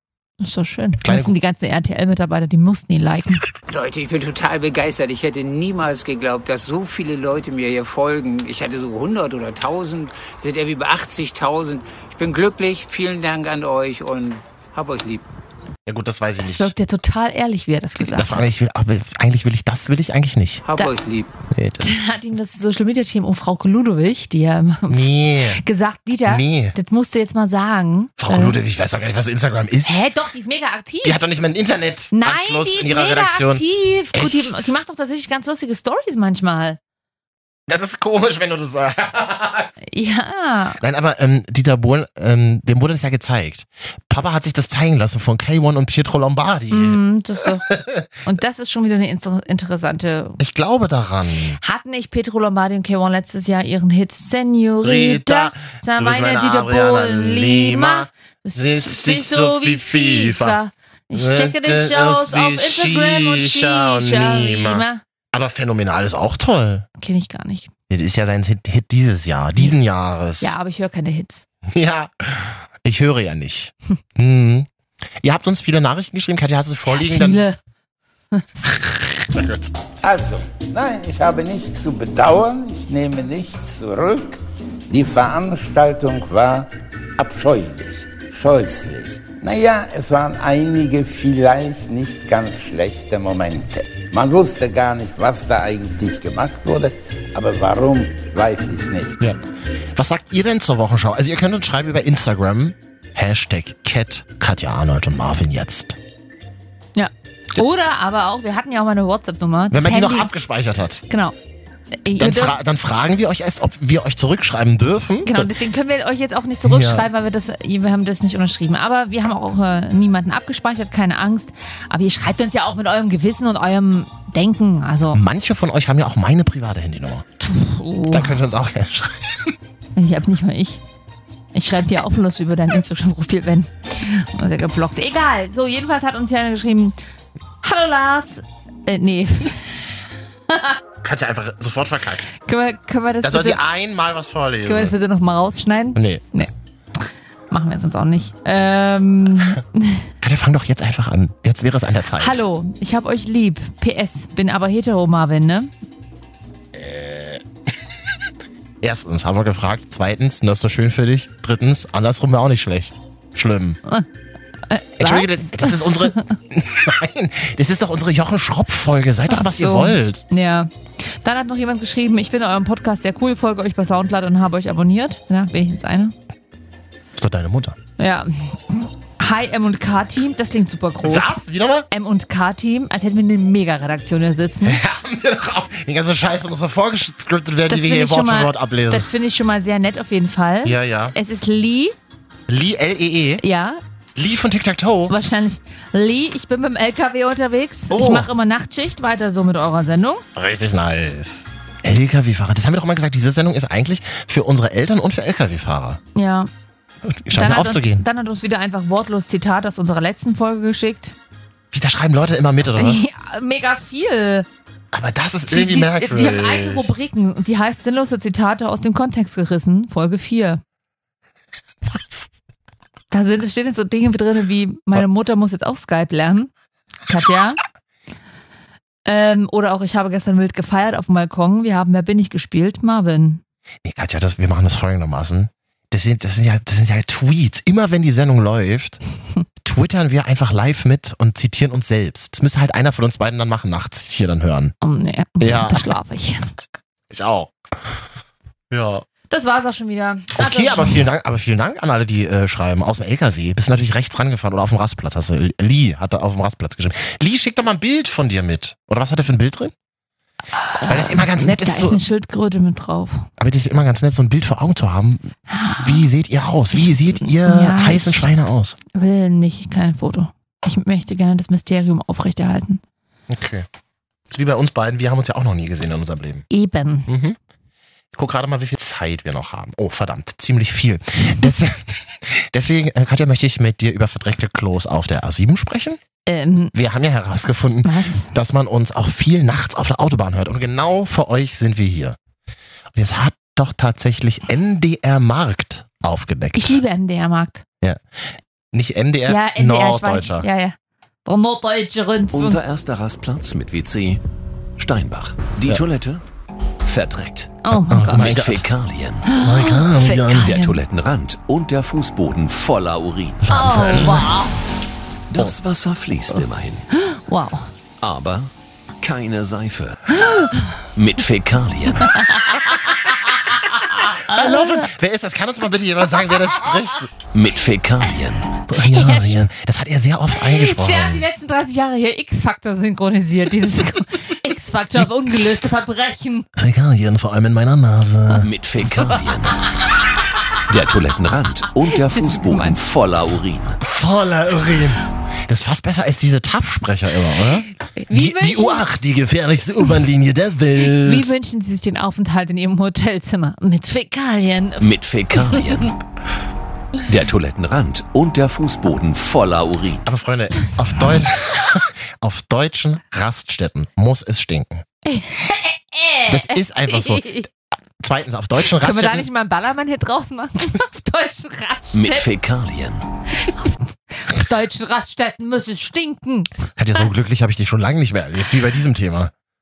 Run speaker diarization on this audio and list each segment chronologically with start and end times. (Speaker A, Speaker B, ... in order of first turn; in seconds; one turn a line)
Speaker A: 0.4-3.4
Speaker B: 1.0-1.3
Speaker C: 3.7-15.2
Speaker B: 15.8-16.7
Speaker A: 16.4-18.5
Speaker B: 18.1-20.6
Speaker C: 20.6-21.3
Speaker B: 21.5-21.9
Speaker A: 21.8-28.6
Speaker B: 24.9-25.6
Speaker B: 26.2-26.7
Speaker B: 28.2-30.1
Speaker A: 29.8-31.2
Speaker B: 31.0-34.7
Speaker A: 32.1-36.8
Speaker B: 37.7-39.7
Speaker A: 39.9-40.8
Speaker B: 40.8-48.1
Speaker A: 46.7-47.7
Speaker A: 48.2-50.4
Speaker B: 50.4-51.6
Speaker A: 51.6-65.0
Speaker B: 54.8-60.6
Speaker B: 61.1-66.8
Speaker A: 67.0-67.7
Speaker B: 67.9-70.5
Speaker A: 70.4-71.4
Speaker B: 71.7-74.7
Speaker B: 75.2-77.4
Speaker A: 76.9-77.6
Speaker A: 78.3-78.8
Speaker B: 79.3-79.7
Speaker D: 80.0-99.2
Speaker B: 99.9-106.0
Speaker A: 107.0-110.3
Speaker B: 109.7-111.0
Speaker A: 111.1-111.3
Speaker A: 112.0-112.6
Speaker B: 112.2-115.5
Speaker A: 115.2-125.2
Speaker B: 116.6-117.1
Speaker B: 125.1-127.2
Speaker A: 127.4-128.4
Speaker B: 128.1-129.6
Speaker A: 129.9-130.8
Speaker A: 131.5-136.9
Speaker A: 137.6-139.9
Speaker A: 140.5-140.8
Speaker B: 141.0-142.3
Speaker A: 142.3-143.6
Speaker B: 143.2-144.9
Speaker A: 144.7-150.1
Speaker B: 145.9-146.2
Speaker B: 150.2-152.4
Speaker A: 152.2-155.7
Speaker B: 156.7-157.4
Speaker B: 158.8-163.8
Speaker A: 164.7-166.3
Speaker B: 165.0-170.2
Speaker A: 169.3-176.1
Speaker B: 177.2-177.8
Speaker A: 178.0-184.8
Speaker B: 181.0-181.9
Speaker B: 184.6-189.1
Speaker A: 187.7-191.9
Speaker B: 190.6-191.1
Speaker B: 192.5-193.4
Speaker A: 193.4-193.8
Speaker B: 194.2-195.1
Speaker A: 195.1-200.2
Speaker B: 197.9-198.3
Speaker B: 200.3-206.0
Speaker A: 206.2-206.5
Speaker B: 207.0-208.0
Speaker A: 207.3-211.1
Speaker B: 211.7-213.0
Speaker A: 212.8-214.5
Speaker B: 214.9-216.9
Speaker A: 215.5-220.6
Speaker B: 221.8-222.2
Speaker A: 223.1-226.5
Speaker A: 227.1-227.6
Speaker A: 229.1-233.4
Speaker B: 233.8-239.0
Speaker B: 239.6-244.7
Speaker A: 244.8-246.4
Speaker B: 245.4-245.8
Speaker B: 247.1-248.0
Speaker B: 248.7-249.0
Speaker A: 249.3-251.0
Speaker B: 250.3-259.7
Speaker A: 260.6-263.3
Speaker B: 260.8-262.0
Speaker B: 263.4-268.8
Speaker A: 265.5-266.1
Speaker A: 266.7-268.3
Speaker A: 268.9-272.8
Speaker B: 273.3-273.7
Speaker B: 274.3-276.4
Speaker A: 276.5-277.1
Speaker B: 277.1-277.4
Speaker B: 278.1-286.0
Speaker A: 286.3-286.7
Speaker B: 286.7-292.2
Speaker A: 287.8-288.3
Speaker B: 292.9-296.8
Speaker A: 296.6-297.6
Speaker B: 298.7-300.5
Speaker A: 299.3-302.6
Speaker E: 302.3-304.2
Speaker E: 304.8-306.2
Speaker E: 306.8-309.4
Speaker A: 307.6-308.4
Speaker B: 307.7-308.6
Speaker A: 309.2-310.8
Speaker B: 309.4-310.5
Speaker E: 310.3-313.5
Speaker B: 313.4-314.4
Speaker A: 313.5-314.6
Speaker E: 315.3-316.9
Speaker A: 316.9-317.7
Speaker E: 318.0-320.2
Speaker A: 320.3-320.6
Speaker E: 320.9-322.2
Speaker A: 324.0-324.9
Speaker B: 324.2-327.1
Speaker E: 327.3-328.5
Speaker B: 328.6-331.2
Speaker A: 328.8-329.4
Speaker A: 330.3-336.4
Speaker B: 336.6-338.5
Speaker E: 338.4-339.6
Speaker E: 340.7-343.8
Speaker A: 342.0-342.8
Speaker B: 343.8-351.3
Speaker A: 347.9-348.9
Speaker A: 350.8-354.9
Speaker E: 354.8-356.0
Speaker E: 357.1-360.1
Speaker B: 360.0-364.8
Speaker A: 365.0-367.5
Speaker B: 366.3-367.4
Speaker B: 368.0-369.2
Speaker A: 368.8-372.3
Speaker E: 371.9-373.0
Speaker A: 373.4-376.5
Speaker B: 376.8-379.3